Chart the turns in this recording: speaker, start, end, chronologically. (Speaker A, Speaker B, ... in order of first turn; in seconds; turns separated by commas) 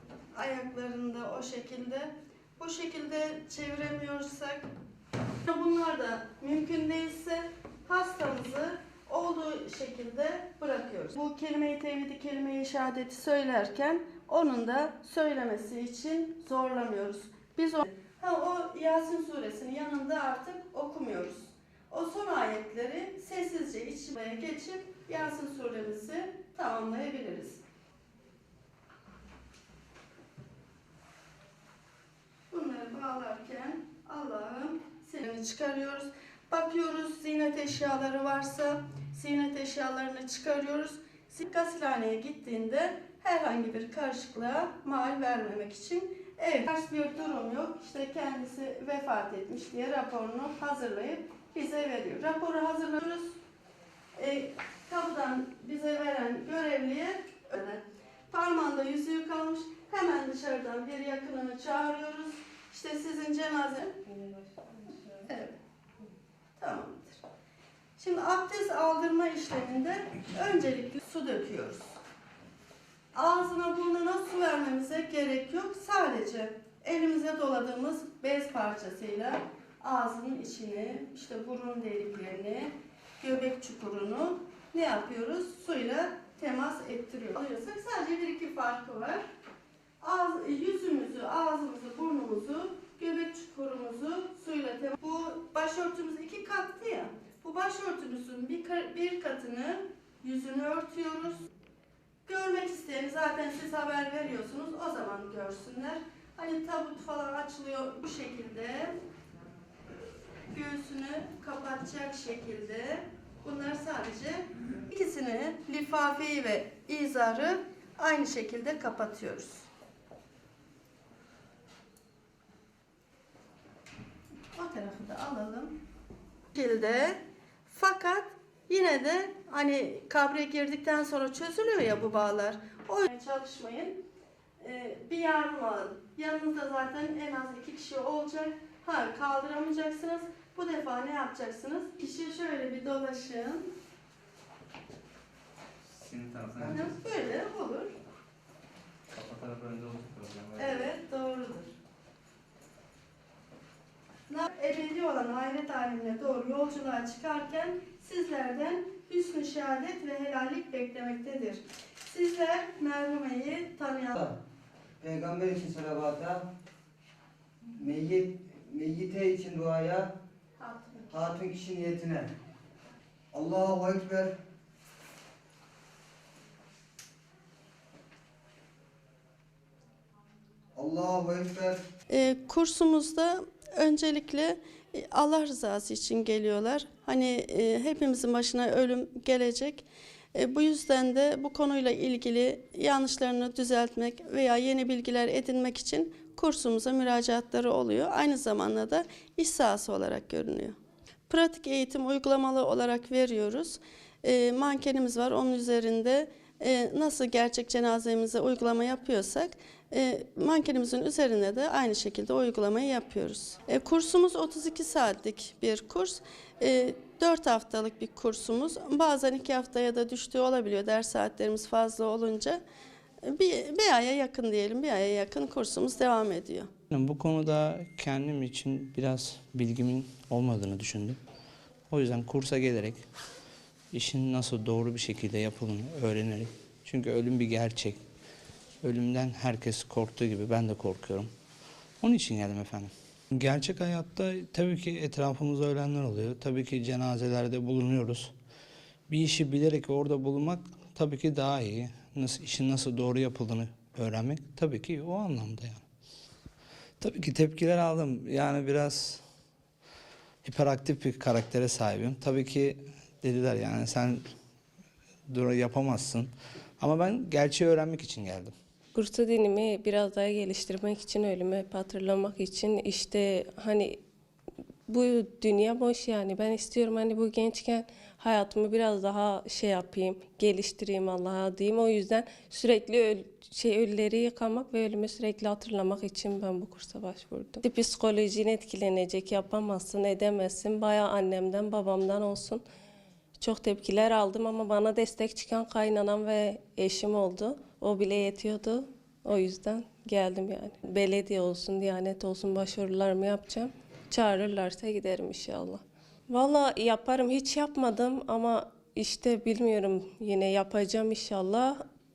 Speaker A: 0.3-4.6, Speaker A: 5.5-27.6, Speaker A: 32.5-53.4, Speaker A: 54.1-64.0, Speaker B: 64.1-65.2, Speaker A: 65.3-65.5, Speaker A: 66.6-67.2, Speaker A: 68.0-72.0, Speaker A: 73.1-89.2, Speaker A: 90.0-101.5, Speaker A: 102.3-109.0, Speaker A: 110.5-119.7, Speaker A: 124.5-125.8, Speaker A: 126.5-134.0, Speaker A: 134.6-143.7, Speaker C: 146.0-146.7, Speaker D: 146.3-146.6, Speaker A: 146.7-147.9, Speaker C: 149.2-150.8, Speaker A: 150.6-151.8, Speaker A: 154.3-164.2, Speaker E: 165.0-166.5, Speaker E: 167.8-170.1, Speaker A: 170.6-171.1, Speaker E: 171.1-172.3, Speaker E: 173.3-174.3, Speaker E: 180.8-181.8, Speaker A: 182.1-200.8, Speaker A: 201.3-222.6, Speaker A: 223.2-226.7, Speaker D: 226.9-231.2, Speaker D: 231.9-233.0, Speaker D: 233.9-238.0, Speaker D: 238.8-241.3, Speaker D: 242.0-248.3, Speaker D: 249.1-255.8, Speaker D: 257.0-259.2, Speaker D: 260.4-264.2, Speaker D: 265.3-268.5, Speaker B: 268.9-274.0, Speaker B: 274.9-292.6, Speaker B: 293.4-311.8